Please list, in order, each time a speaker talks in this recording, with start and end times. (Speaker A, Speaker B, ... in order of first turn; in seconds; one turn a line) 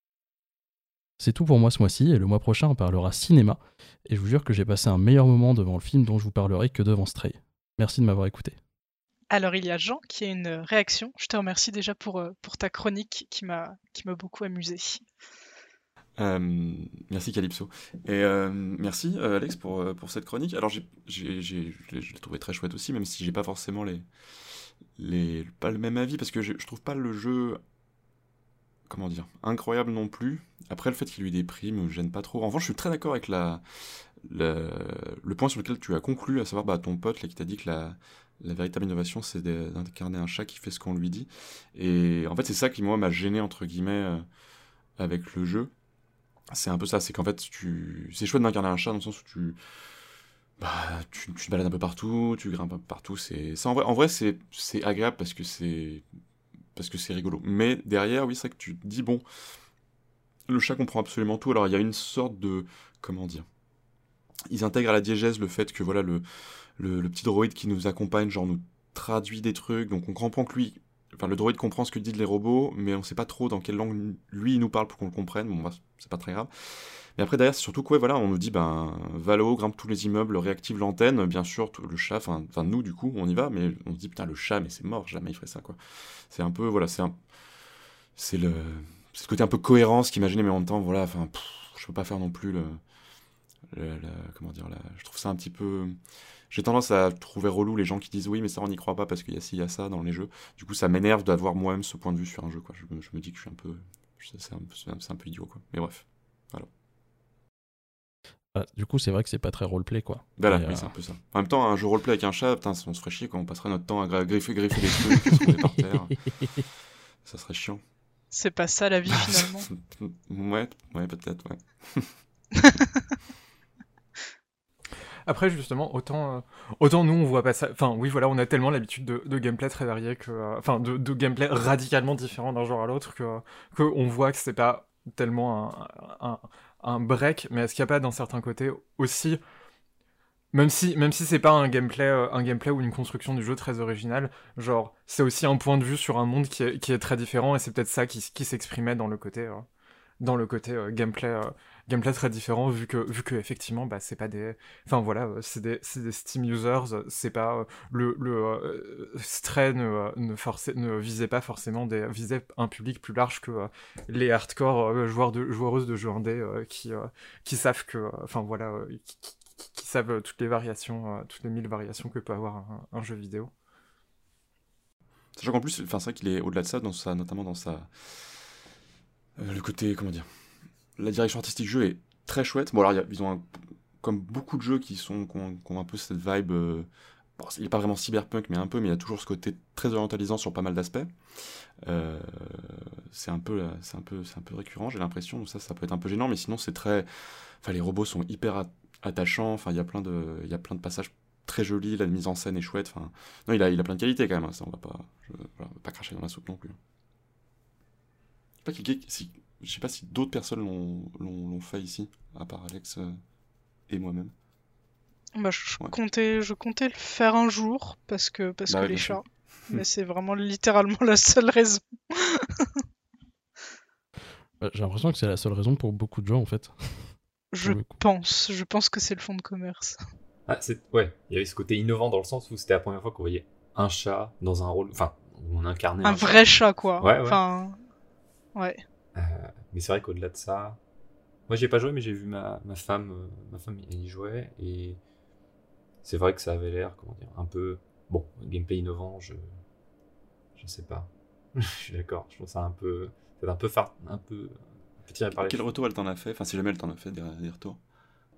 Speaker A: 1.2-8.6
Speaker B: 9.3-15.0
Speaker C: 16.2-24.1
Speaker C: 25.0-27.6
Speaker C: 28.9-33.6
Speaker C: 34.2-44.2
Speaker C: 45.0-45.7
Speaker C: 46.5-49.6
Speaker C: 50.6-56.0
Speaker C: 56.7-59.2
Speaker C: 60.5-63.5
Speaker C: 64.5-66.2
Speaker C: 66.8-87.2
Speaker C: 88.2-92.8
Speaker C: 93.7-96.0
Speaker C: 96.5-106.7
Speaker A: 108.5-110.9
Speaker C: 110.4-116.2
Speaker C: 117.2-117.8
Speaker B: 118.3-119.7
Speaker C: 119.1-122.2
Speaker D: 125.2-139.4
Speaker D: 140.5-149.7
Speaker D: 150.2-173.5
Speaker C: 175.3-178.3
Speaker C: 179.4-180.3
Speaker C: 181.0-191.1
Speaker C: 191.8-206.8
Speaker C: 208.6-213.2
Speaker C: 213.9-214.3
Speaker B: 215.3-222.8
Speaker C: 218.7-219.8
Speaker A: 224.6-227.1
Speaker B: 227.5-230.0
Speaker E: 230.5-237.4
Speaker B: 236.0-237.8
Speaker B: 238.6-238.8
Speaker E: 239.1-240.8
Speaker E: 241.5-245.0
Speaker E: 246.0-249.5
Speaker E: 250.6-255.8
Speaker C: 255.3-257.8